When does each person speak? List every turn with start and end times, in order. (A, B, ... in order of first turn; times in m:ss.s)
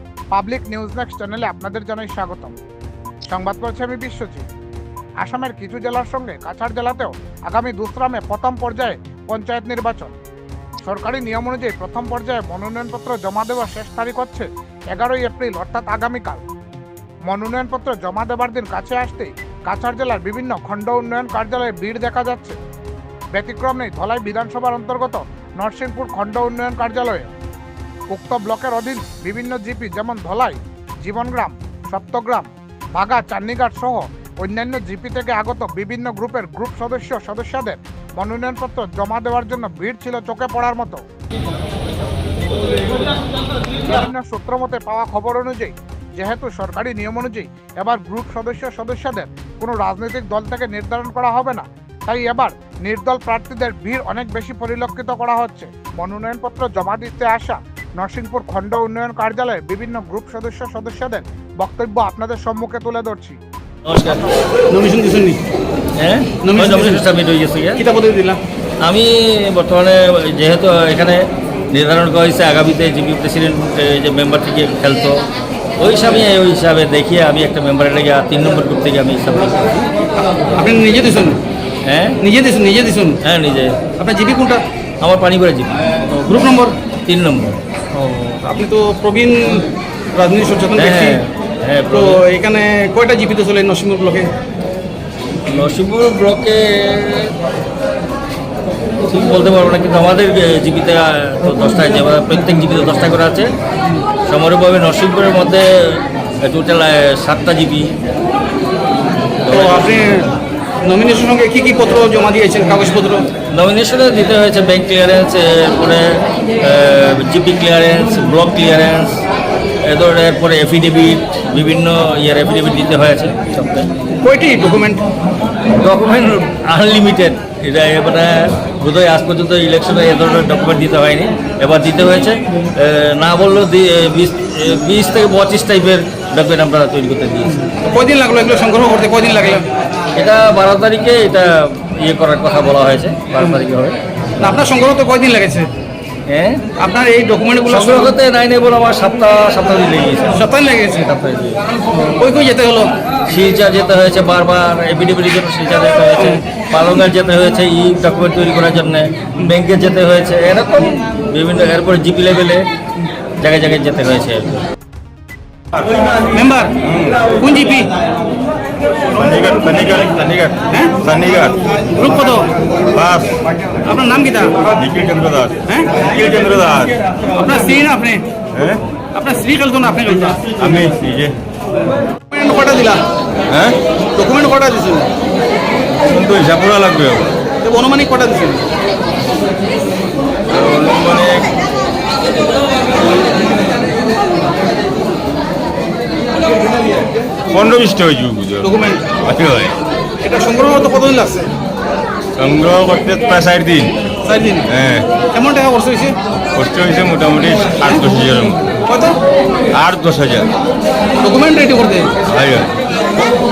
0:00.3-0:02.6 A
0:03.3-0:04.4 A
0:05.2-0:10.1 A
0:10.8-0:16.4 A
0:17.3-0:22.6 A
0:23.3-0:27.3 A
0:28.1-0:41.0 A
0:43.8-1:03.4 A
1:03.9-1:04.2 B
1:04.0-1:04.3 A
1:04.7-1:05.4 C
1:06.0-1:07.8 B
1:06.4-1:07.0 C
1:07.8-1:08.4 C
1:08.8-1:15.2 B
1:15.8-1:19.8 B
1:20.5-1:21.4 C
1:21.8-1:22.2 B
1:22.2-1:23.2 C
1:23.2-1:23.7 B
1:24.0-1:24.6 C
1:25.0-1:25.7 B
1:26.1-1:26.8 C
1:27.0-1:27.6 B
1:27.9-1:31.2 C
1:30.7-1:32.1 B
1:31.9-1:34.3 C
1:35.5-1:37.3 B
1:39.0-1:43.5 B
1:44.2-1:47.9 B
1:49.5-1:49.9 B
1:49.5-1:50.3 C
1:50.8-1:53.3 C
1:53.5-1:56.0 B
1:56.6-1:59.2 B
1:59.8-2:03.9 B
2:04.2-2:05.0 C
2:05.8-2:17.6 B
2:17.8-2:19.6 C
2:20.2-2:24.0 B
2:24.4-2:25.7 C
2:26.3-2:26.6 B
2:26.8-2:28.1 C
2:27.7-2:30.4 B
2:30.4-2:31.0 C
2:31.0-2:31.6 B
2:31.9-2:32.9 C
2:33.3-2:42.6 B
2:43.4-2:44.6 B
2:46.3-2:46.7 C
2:46.8-2:47.3 D
2:47.4-2:47.9 C
2:49.1-2:51.6 D
2:52.0-2:52.5 C
2:52.9-2:53.4 D
2:53.9-2:54.5 C
2:54.7-2:57.0 D
2:57.3-2:58.2 C
2:59.1-3:00.4 C
3:00.4-3:01.3 D
3:02.3-3:03.0 C
3:03.5-3:03.8 D
3:04.2-3:05.1 C
3:06.0-3:07.3 D
3:07.6-3:08.6 C
3:10.5-3:11.5 D
3:17.5-3:19.7 D
3:18.6-3:19.0 C
3:20.2-3:21.5 C
3:22.4-3:23.9 D
3:24.2-3:24.6 C
3:24.7-3:25.0 D
3:25.2-3:26.2 C
3:26.6-3:28.6 D
3:28.9-3:29.2 C
3:29.7-3:30.5 D
3:31.2-3:32.1 C
3:32.3-3:32.7 D